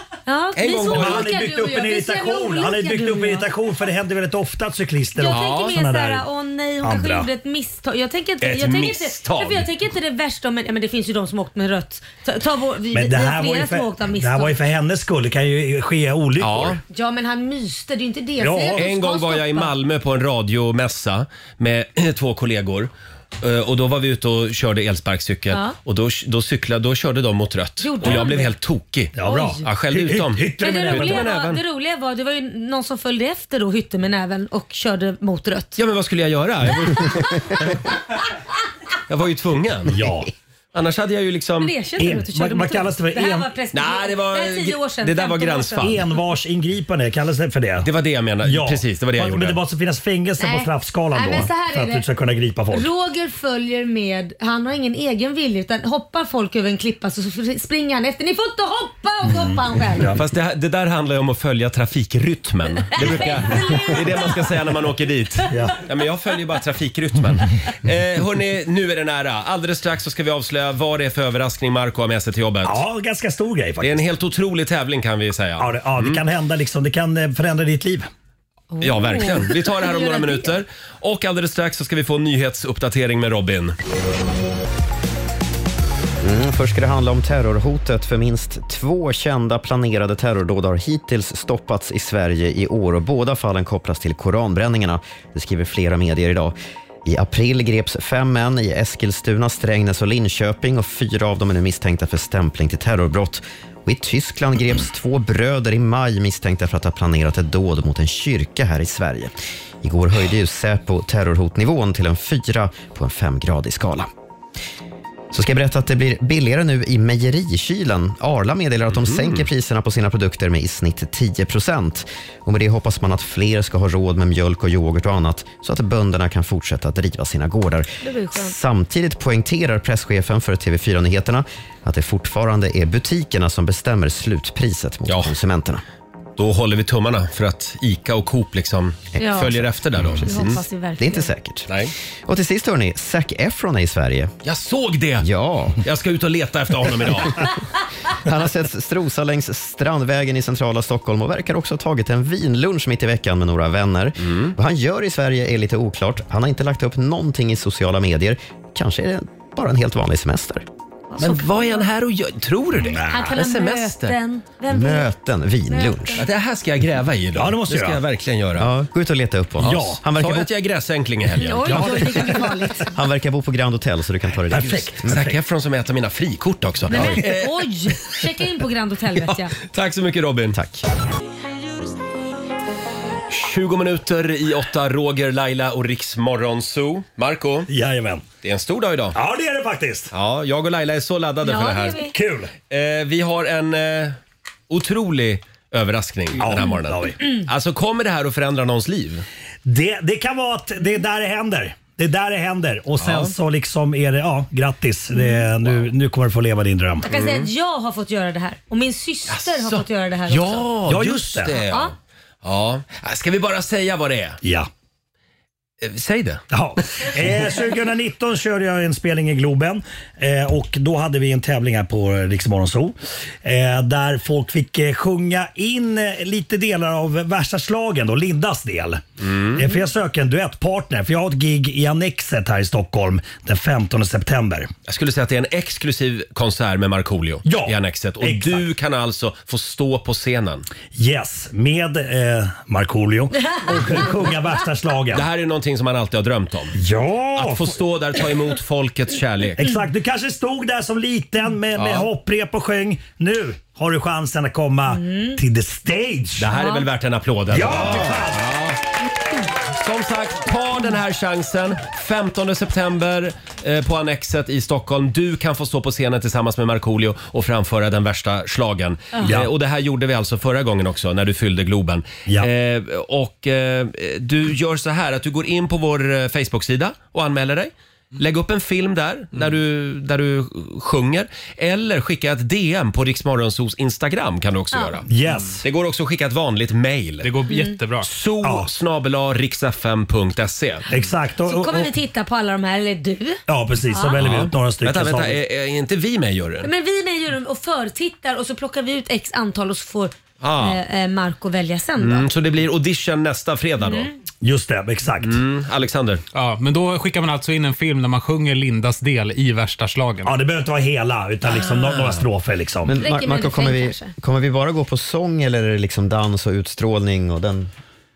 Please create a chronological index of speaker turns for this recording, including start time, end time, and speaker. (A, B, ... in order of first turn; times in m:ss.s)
0:00.3-0:03.5 A
0:00.6-0:01.3 B
0:00.8-0:06.3 C
0:05.2-0:14.5 A
0:05.3-0:05.7 B
0:06.8-0:07.3 C
0:08.4-0:09.7 B
0:12.9-0:16.8 C
0:16.4-0:16.8 B
0:16.9-0:19.7 A
0:18.4-0:18.9 C
0:18.8-0:31.6 B
0:27.8-0:28.5 A
0:29.1-0:31.3 C
0:29.2-0:29.6 A
0:30.6-0:35.8 A
0:35.8-0:37.8 B
0:39.1-0:40.1 B
0:39.9-0:40.3 C
0:40.7-0:41.7 B
0:41.6-0:45.9 A
0:42.0-0:43.5 C
0:43.7-0:46.0 B
0:45.8-0:47.9 C
0:47.8-0:49.6 B
0:48.4-0:52.9 C
0:50.4-0:52.0 A
0:52.7-1:00.1 A
0:59.3-1:00.2 C
1:00.2-1:12.8 B
1:03.0-1:04.4 A
1:05.5-1:05.8 C
1:12.6-1:14.1 C
1:13.8-1:16.2 B
1:15.6-1:18.1 C
1:18.7-1:20.5 A
1:18.8-1:23.8 B
1:26.2-1:54.1 D
1:55.3-2:15.8 D
1:58.9-1:59.4 B
2:08.0-2:08.6 A
2:16.4-2:20.6 B
2:19.2-2:19.6 A
2:20.0-2:24.3 D
2:20.2-2:21.3 A
2:21.7-2:21.9 B
2:24.4-2:25.3 B
2:25.2-2:25.8 D
2:25.8-2:27.5 B
2:28.2-2:40.6 D
2:34.2-2:34.5 B
2:41.1-2:41.9 A
2:41.2-2:44.2 B
2:42.8-2:43.3 C
2:43.1-2:45.1 A
2:44.7-2:46.3 D
2:45.7-2:46.2 A
2:46.2-2:48.7 B
2:47.4-2:48.0 C
2:48.6-2:50.5 D
2:49.6-2:52.2 B
2:49.6-2:50.0 C
2:51.4-2:52.9 A
2:51.6-2:52.7 C
2:52.9-2:55.4 D
2:54.5-2:55.0 C
2:54.5-2:58.1 B
2:56.9-2:59.6 A
2:59.2-3:00.6 B
3:00.5-3:00.8 D
3:03.3-3:07.7 B
3:07.7-3:08.2 C
3:08.4-3:09.2 B
3:09.1-3:10.1 C
3:10.1-3:12.1 B
3:11.4-3:12.2 A
3:12.1-3:12.5 C
3:12.7-3:14.2 B
3:14.7-3:19.2 B
3:16.4-3:17.2 C
3:19.6-3:27.1 C
3:23.0-3:23.3 B
3:25.1-3:25.4 A
3:27.0-3:30.6 A
3:27.1-3:27.5 B
3:29.3-3:34.4 B
3:30.9-3:31.6 C
3:31.7-3:31.9 A
3:34.4-3:34.7 C
3:35.8-3:36.4 B
3:36.5-3:54.7 C
3:49.2-3:49.6 B
3:54.9-4:00.7 B
3:57.4-3:58.7 C
4:00.9-4:05.3 C
4:05.1-4:06.8 B
4:06.7-4:07.7 C
4:07.4-4:09.6 B
4:09.6-4:16.5 C
4:11.8-4:12.1 B
4:14.9-4:15.4 A
4:16.4-4:18.8 B
4:16.5-4:16.9 A
4:17.5-4:18.6 C
4:19.8-4:45.1 B
4:29.2-4:29.5 C
4:44.7-4:45.0 A
4:45.1-4:45.6 C
4:45.6-4:47.3 B
4:47.2-4:48.1 E
4:47.5-4:47.8 A
4:48.0-4:50.9 B
4:48.4-4:48.7 C
4:50.9-4:51.9 C
4:51.4-4:54.2 A
4:53.5-4:55.4 C
4:54.2-4:56.7 B
4:56.6-5:02.3 A
5:00.4-5:00.8 B
5:02.0-5:04.1 B
5:03.8-5:04.1 A
5:04.4-5:05.4 C
5:05.2-5:06.2 B
5:06.3-5:10.3 E
5:10.2-5:13.0 C
5:11.5-5:12.2 B
5:12.9-5:17.7 D
5:13.0-5:14.1 A